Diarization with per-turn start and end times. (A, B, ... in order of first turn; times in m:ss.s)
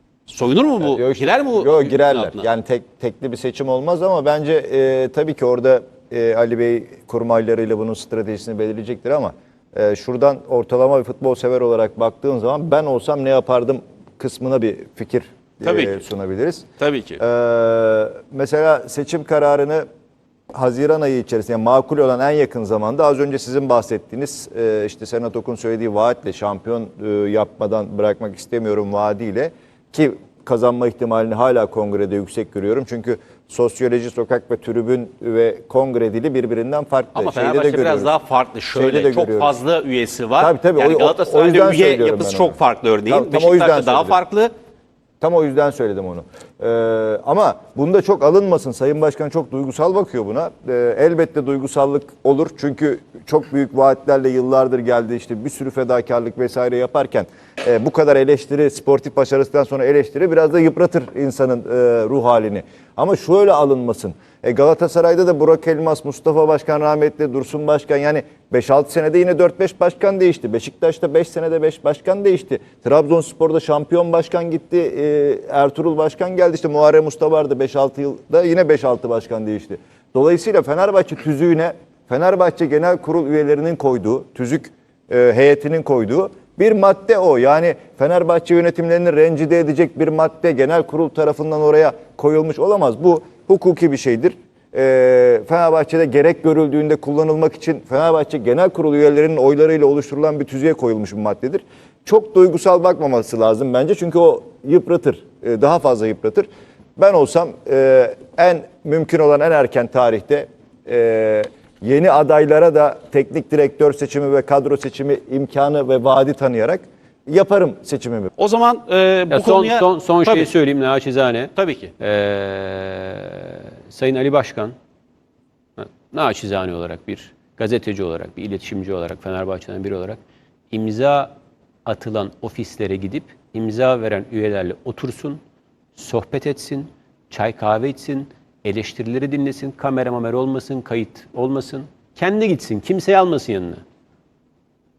0:00.3-0:02.4 A
0:00.8-0:16.7 B
0:15.6-0:16.0 A
0:16.8-0:17.2 A
0:17.2-0:19.8 B
0:20.5-0:38.1 B
0:37.2-0:44.5 A
0:38.7-0:39.5 B
0:40.4-0:42.6 B
0:43.1-0:44.2 B
0:45.2-1:58.3 B
1:58.4-2:00.5 A
1:59.3-2:04.7 C
2:01.6-2:01.9 A
2:05.8-2:10.2 C
2:10.7-2:11.3 C
2:11.8-2:15.4 C
2:16.0-2:23.8 C